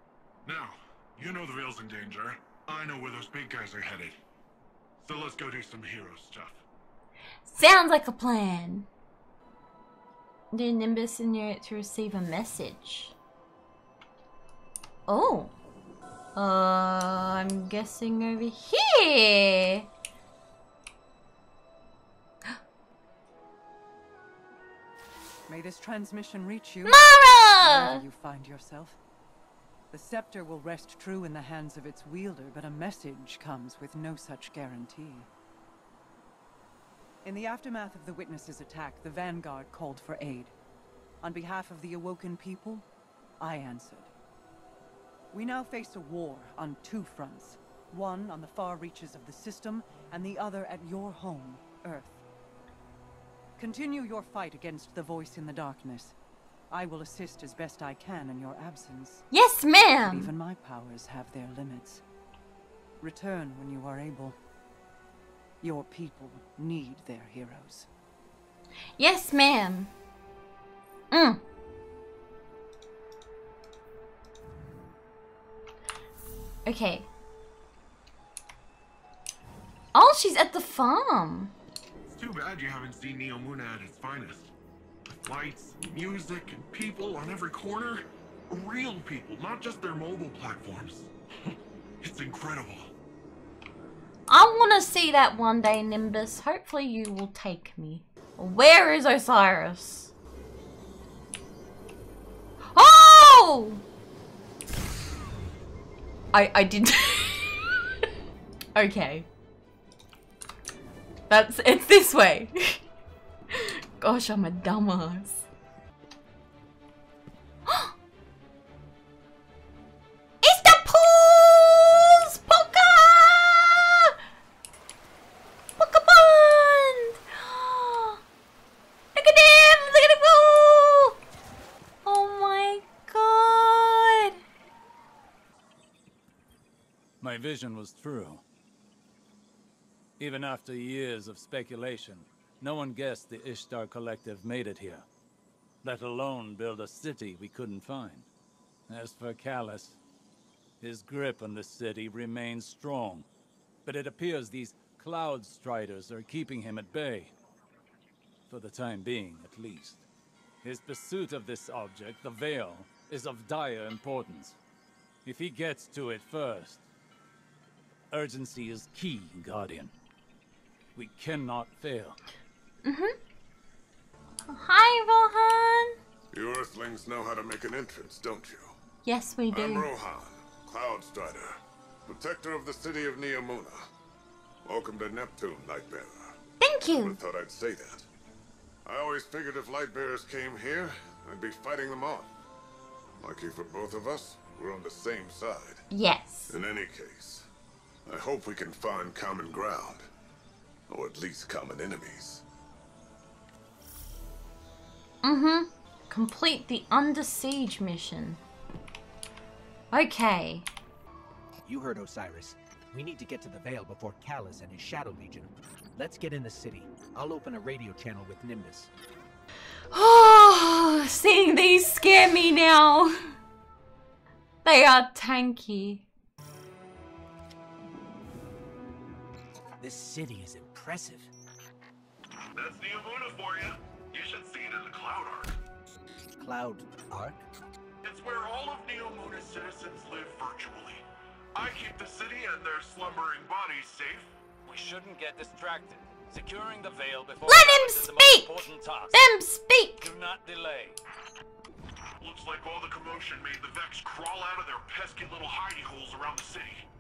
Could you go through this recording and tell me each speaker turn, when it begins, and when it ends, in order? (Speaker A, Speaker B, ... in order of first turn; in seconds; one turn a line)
Speaker A: 0.5-4.2
Speaker A: 5.0-6.6
Speaker B: 7.4-8.9
Speaker B: 10.5-13.1
Speaker B: 15.1-15.5
Speaker B: 16.4-19.9
Speaker C: 25.5-29.0
Speaker B: 26.8-28.0
Speaker C: 29.9-35.3
Speaker C: 37.2-40.5
Speaker C: 41.2-42.9
Speaker C: 43.4-44.1
Speaker C: 45.3-52.2
Speaker C: 53.6-56.1
Speaker C: 56.7-59.2
Speaker B: 59.3-60.3
Speaker C: 60.0-62.0
Speaker C: 63.0-64.4
Speaker C: 65.6-67.9
Speaker B: 69.0-69.9
Speaker B: 71.1-71.4
Speaker B: 76.6-77.1
Speaker B: 79.9-81.5
Speaker A: 82.1-84.5
Speaker A: 85.2-91.1
Speaker A: 92.0-92.9
Speaker B: 94.3-100.1
Speaker B: 102.7-103.8
Speaker B: 106.3-107.8
Speaker B: 108.8-109.3
Speaker B: 111.3-112.8
Speaker B: 113.5-115.5
Speaker B: 117.7-117.9
Speaker B: 120.4-124.1
Speaker B: 125.8-128.2
Speaker B: 129.1-131.2
Speaker B: 132.1-134.4
Speaker D: 137.2-138.4
Speaker D: 140.2-145.1
Speaker D: 145.8-148.3
Speaker D: 148.9-150.0
Speaker D: 150.8-153.3
Speaker D: 153.8-157.3
Speaker D: 158.5-160.1
Speaker D: 160.6-164.6
Speaker D: 165.2-166.8
Speaker D: 168.1-169.9
Speaker D: 170.9-172.2
Speaker B: 172.8-173.1
Speaker B: 174.5-176.0
Speaker E: 176.3-178.7
Speaker B: 179.1-179.9
Speaker E: 179.5-183.8
Speaker E: 184.6-186.4
Speaker B: 186.6-187.2
Speaker E: 187.0-188.1
Speaker E: 188.8-192.3
Speaker E: 193.2-195.8
Speaker B: 195.9-196.6
Speaker E: 196.5-197.4
Speaker E: 198.1-200.0
Speaker E: 200.9-202.4
Speaker B: 205.2-208.4
Speaker B: 209.9-210.7
Speaker F: 211.6-218.9
Speaker B: 219.9-223.2
Speaker B: 224.6-226.1
Speaker F: 229.8-231.3
Speaker A: 232.6-235.6
Speaker F: 236.4-237.5
Speaker A: 238.0-241.0
Speaker A: 241.6-244.3
Speaker D: 244.7-249.2
Speaker B: 247.5-250.1
Speaker D: 250.0-251.0
Speaker A: 252.2-256.9